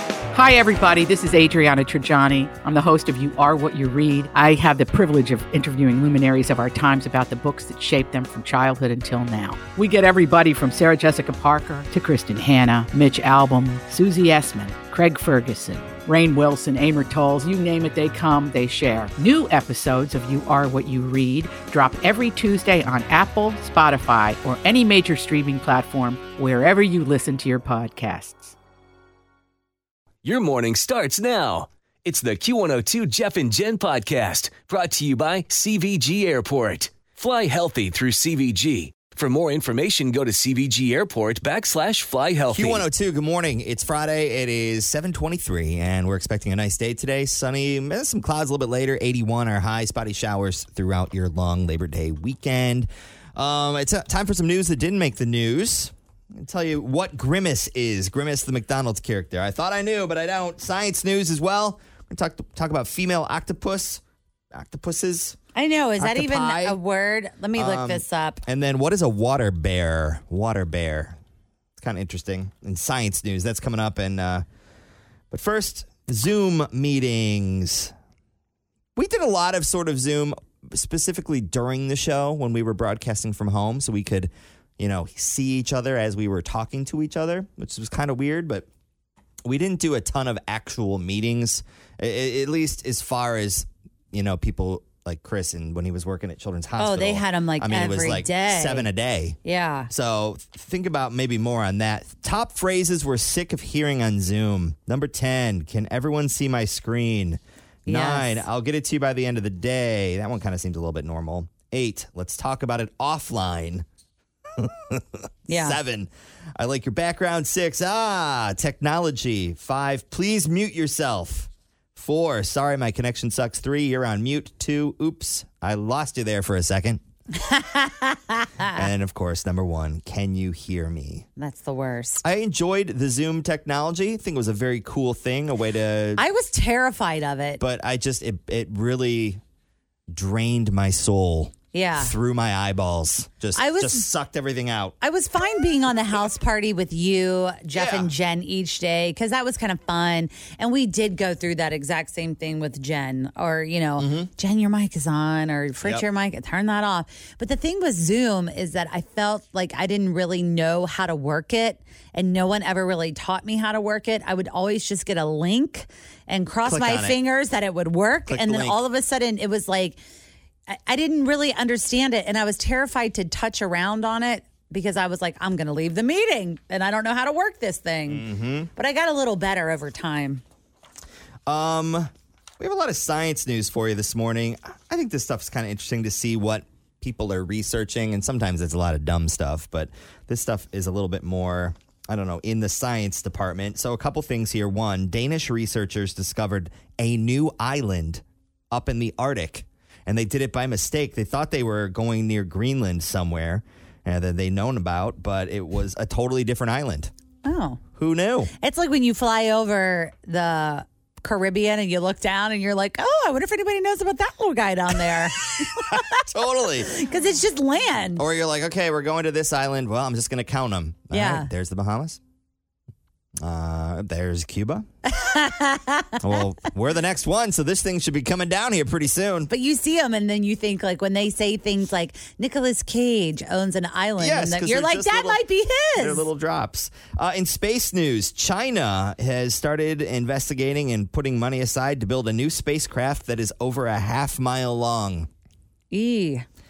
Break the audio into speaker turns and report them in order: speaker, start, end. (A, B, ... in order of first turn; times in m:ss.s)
0:00.3-0:28.5 A
0:30.2-0:42.8 B
0:42.5-1:04.0 C
1:04.5-1:05.4 C
1:05.5-1:08.4 D
1:06.0-1:06.8 C
1:07.5-1:11.2 C
1:11.8-1:14.4 C
1:15.3-1:17.9 C
1:19.0-1:28.7 C
1:29.4-1:39.4 C
1:36.8-1:38.9 D
1:39.4-1:39.9 D
1:39.9-1:53.8 C
1:47.8-1:48.4 D
1:54.6-2:07.0 C
1:55.5-1:55.8 D
2:07.4-2:08.8 D
2:08.7-2:11.2 C
2:11.4-2:12.2 D
2:12.2-2:16.2 C
2:16.2-2:17.6 D
2:17.6-2:19.4 C
2:20.1-2:24.9 C
2:21.7-2:22.1 D
2:23.5-2:24.1 D
2:25.0-2:50.0 D
2:27.7-2:28.1 C
2:34.0-2:34.3 C
2:46.6-2:47.2 C
2:48.3-2:48.8 C
2:50.7-3:00.4 D
2:58.1-2:58.7 C
3:01.5-3:27.1 C
3:27.4-3:27.8 D
3:28.0-3:28.5 C
3:28.6-3:36.2 D
3:36.3-3:36.9 C
3:36.8-3:38.2 D
3:38.2-3:42.2 C
3:41.1-3:41.5 D
3:43.4-3:44.9 C
3:45.0-3:46.2 D
3:46.2-3:49.5 C
3:49.5-3:56.3 D
3:54.2-3:55.4 C
3:56.0-4:05.3 C
4:05.9-4:06.4 D